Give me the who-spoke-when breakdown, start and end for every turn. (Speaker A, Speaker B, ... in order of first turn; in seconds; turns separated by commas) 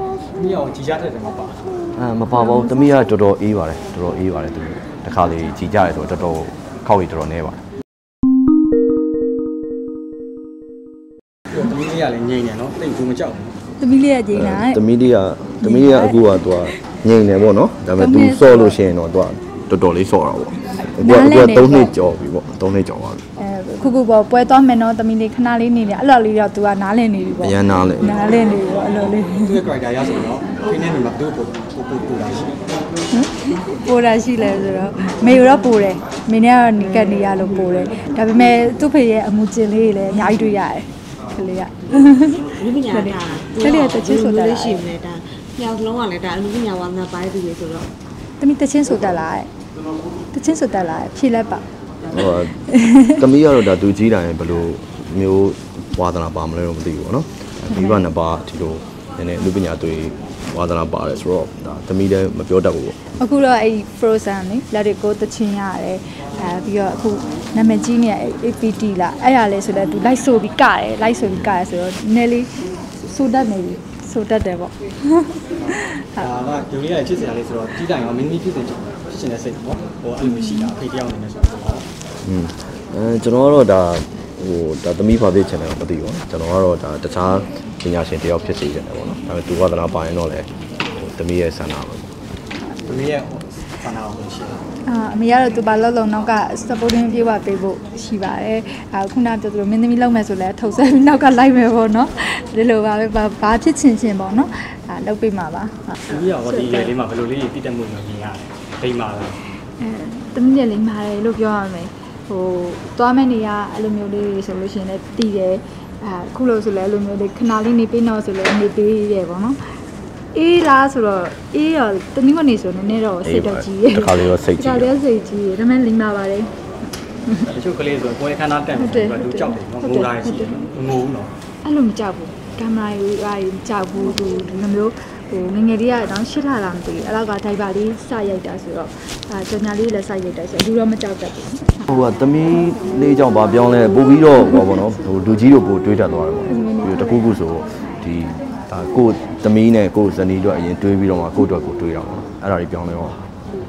Speaker A: 0.4-1.7, Speaker B: 1.9-7.7, Speaker A: 11.5-13.6, Speaker C: 13.8-14.8, Speaker B: 14.3-23.2, Speaker C: 15.6-16.2, Speaker C: 17.9-18.8, Speaker C: 20.8-21.9, Speaker C: 23.4-29.6, Speaker B: 27.4-28.2, Speaker A: 29.3-32.7, Speaker C: 33.1-44.9, Speaker D: 42.5-47.9, Speaker C: 48.4-49.5, Speaker C: 50.3-51.6, Speaker B: 52.1-63.1, Speaker C: 52.7-53.1, Speaker C: 63.2-76.2, Speaker A: 75.7-81.9, Speaker B: 82.2-92.1, Speaker A: 92.8-94.6, Speaker C: 94.8-106.9, Speaker A: 106.1-109.5, Speaker C: 109.7-119.7, Speaker C: 120.3-126.6, Speaker B: 123.2-125.0, Speaker A: 127.4-131.3, Speaker C: 128.8-130.6, Speaker C: 131.6-141.9, Speaker B: 141.9-153.3, Speaker C: 146.5-147.2